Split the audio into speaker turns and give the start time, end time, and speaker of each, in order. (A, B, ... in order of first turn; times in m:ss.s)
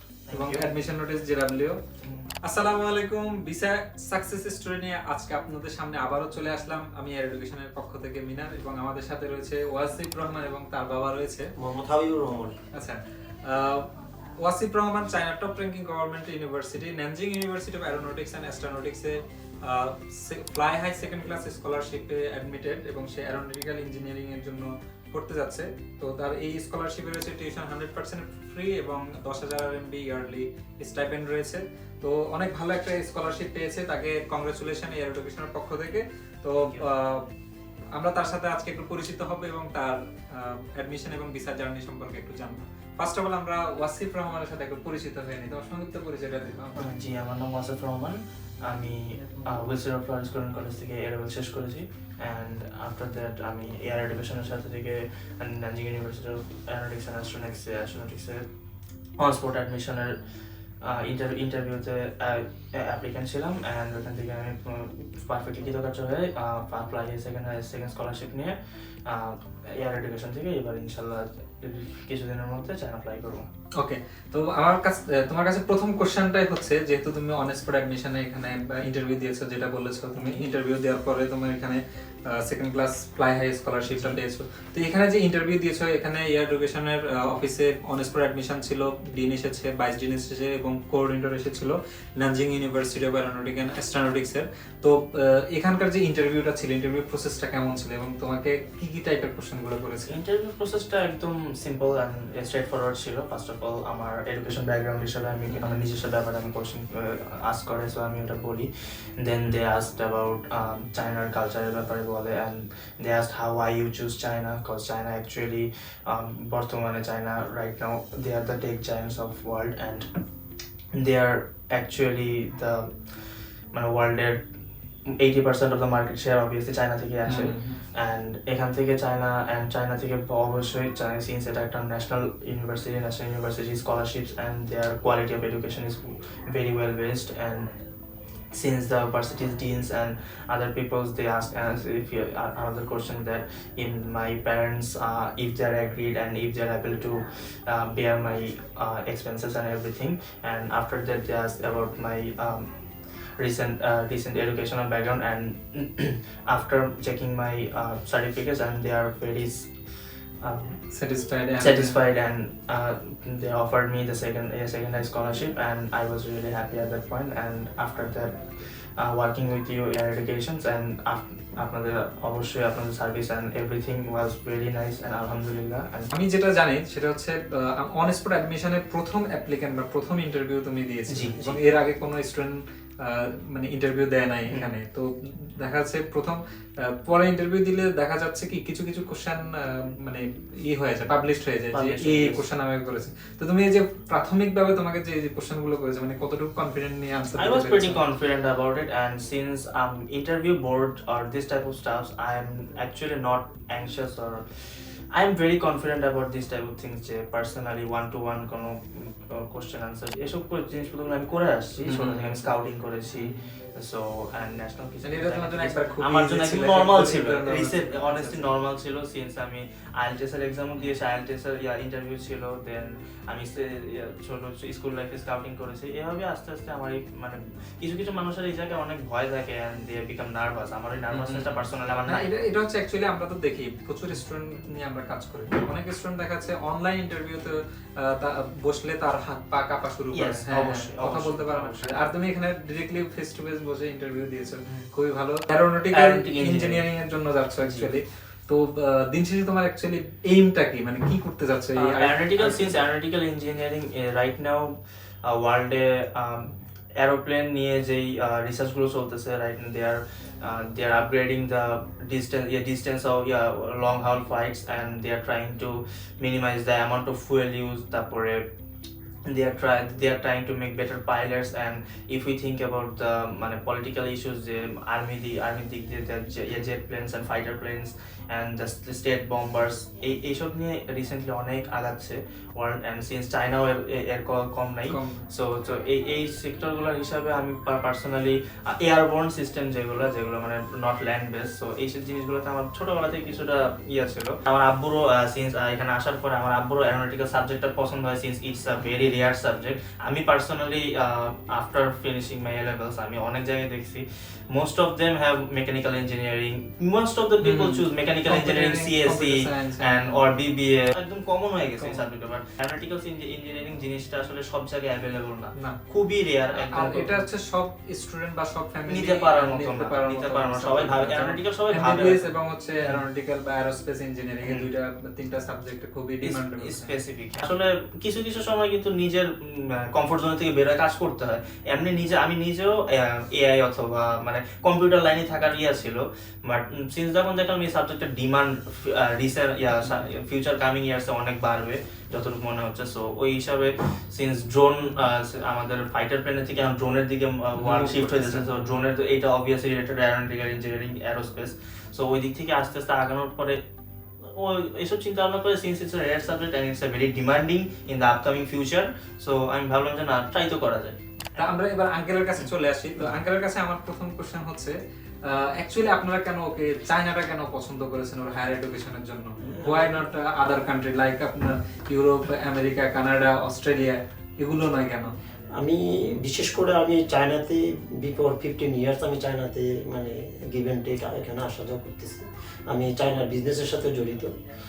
0:00.3-0:00.8 A
0:00.3-0:01.8 B
0:02.0-0:02.3 A
0:02.4-0:11.5 B
0:11.6-0:12.6 C
0:12.8-0:13.9 B
0:14.4-0:37.2 B
0:36.6-0:36.9 A
0:38.0-0:46.9 B
0:46.8-0:58.5 A
0:59.2-1:00.2 A
1:00.8-1:13.4 A
1:13.8-1:21.8 B
1:20.2-1:20.4 A
1:22.3-1:40.2 B
1:23.9-1:24.2 A
1:40.1-2:00.1 A
1:45.5-1:45.8 B
2:00.9-2:03.0 A
2:03.7-2:04.4 A
2:05.2-2:17.7 A
2:07.3-2:07.8 B
2:18.5-2:32.7 A
2:33.4-2:39.7 A
2:40.4-2:40.8 A
2:40.9-2:42.0 B
2:41.6-2:48.4 A
2:49.0-2:56.1 A
2:56.1-3:05.1 B
3:01.1-3:01.6 A
3:04.5-3:04.8 A
3:05.6-3:06.4 B
3:07.0-3:09.4 B
3:10.0-3:18.0 B
3:11.7-3:12.4 A
3:17.4-3:24.5 A
3:25.1-3:52.3 A
3:31.9-3:32.4 B
3:33.1-3:33.4 B
3:35.0-3:38.5 B
3:51.1-4:12.7 B
4:00.1-4:02.1 A
4:05.9-4:06.8 A
4:07.6-4:07.9 A
4:11.8-4:28.4 A
4:29.3-5:17.2 A
4:44.9-4:45.3 B
5:07.4-5:10.2 B
5:11.8-5:12.0 B
5:16.6-5:26.9 B
5:18.9-5:22.2 A
5:24.4-5:24.7 A
5:26.2-5:53.6 A
5:47.6-5:48.6 B
5:54.2-6:01.5 A
6:01.4-6:15.1 B
6:02.4-6:03.1 A
6:09.4-6:10.0 C
6:15.6-6:24.3 C